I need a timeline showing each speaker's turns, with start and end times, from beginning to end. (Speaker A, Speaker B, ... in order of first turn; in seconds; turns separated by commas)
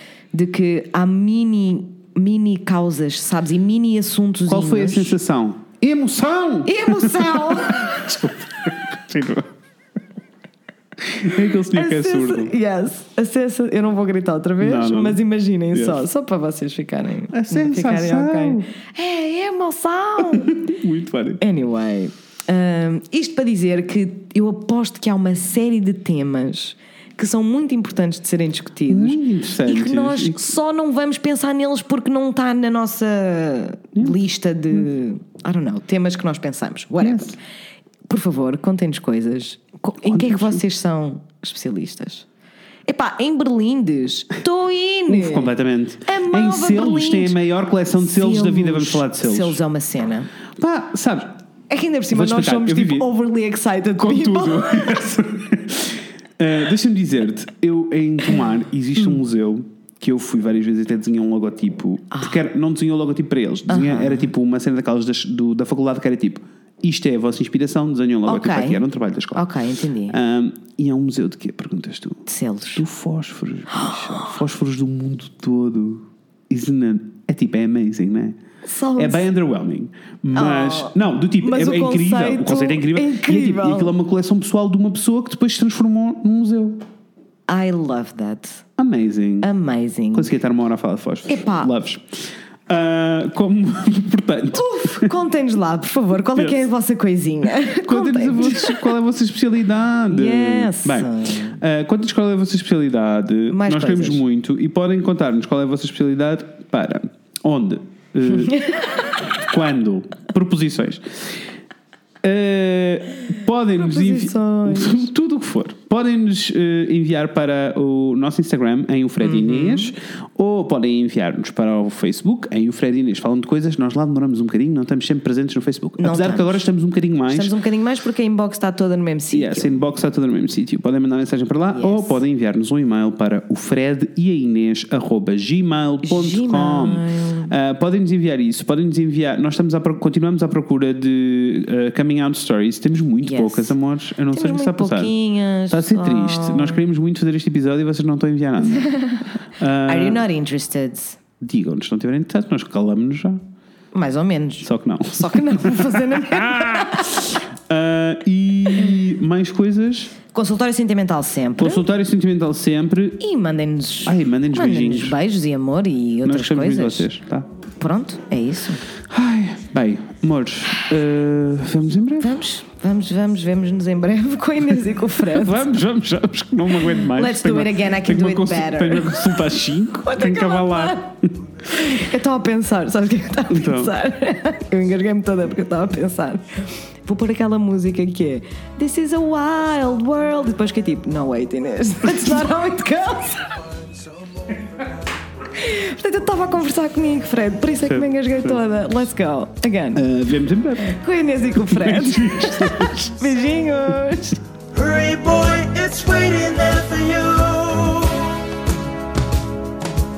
Speaker A: 0.3-5.2, Speaker B: 4.5-9.5, Speaker A: 6.6-8.2, Speaker B: 11.1-12.5, Speaker A: 11.7-20.6, Speaker B: 14.6-15.2, Speaker B: 15.7-16.0, Speaker B: 17.3-18.7, Speaker B: 20.2-21.4, Speaker A: 21.4-37.4, Speaker B: 28.9-30.4, Speaker B: 37.0-37.4, Speaker A: 38.1-42.2, Speaker B: 40.0-40.6, Speaker A: 42.9-45.5, Speaker B: 45.1-49.6, Speaker A: 46.0-47.4, Speaker A: 47.9-50.3, Speaker B: 50.6-51.4, Speaker A: 51.7-55.2, Speaker B: 52.1-53.1, Speaker B: 54.0-69.5, Speaker A: 62.1-62.4, Speaker A: 63.7-64.3, Speaker A: 68.2-68.8, Speaker A: 69.3-70.2, Speaker B: 70.1-78.4, Speaker A: 72.3-72.8, Speaker A: 73.7-74.4, Speaker A: 78.6-79.2, Speaker B: 79.0-86.8, Speaker A: 80.3-83.9, Speaker A: 87.5-88.6, Speaker B: 88.8-89.5, Speaker A: 89.4-90.3, Speaker B: 90.1-95.1, Speaker A: 91.3-91.7, Speaker A: 94.5-98.9, Speaker B: 97.8-111.4, Speaker A: 100.1-101.6, Speaker A: 103.5-104.2, Speaker A: 108.3-109.1, Speaker B: 112.2-127.5, Speaker A: 113.8-115.1, Speaker A: 119.2-119.9, Speaker A: 126.0-126.6, Speaker A: 127.3-129.7, Speaker B: 129.3-145.1, Speaker A: 131.7-132.2, Speaker A: 136.0-137.5, Speaker A: 143.2-143.7, Speaker A: 144.3-146.8, Speaker B: 145.7-150.2, Speaker A: 149.8-151.2, Speaker B: 151.4-153.4, Speaker A: 153.9-157.2, Speaker B: 154.6-160.2, Speaker A: 160.3-161.8, Speaker B: 161.6-163.2, Speaker A: 163.2-167.1, Speaker B: 164.0-165.2, Speaker B: 166.2-167.5, Speaker A: 167.8-168.8, Speaker B: 169.1-172.4, Speaker A: 172.2-175.7, Speaker B: 175.3-181.3, Speaker A: 176.8-179.5, Speaker A: 180.0-181.1, Speaker A: 181.6-193.6, Speaker B: 183.5-183.9, Speaker A: 195.5-200.0, Speaker B: 197.9-198.6, Speaker B: 199.9-201.0, Speaker A: 200.8-204.4, Speaker B: 201.6-203.1, Speaker C: 204.7-208.4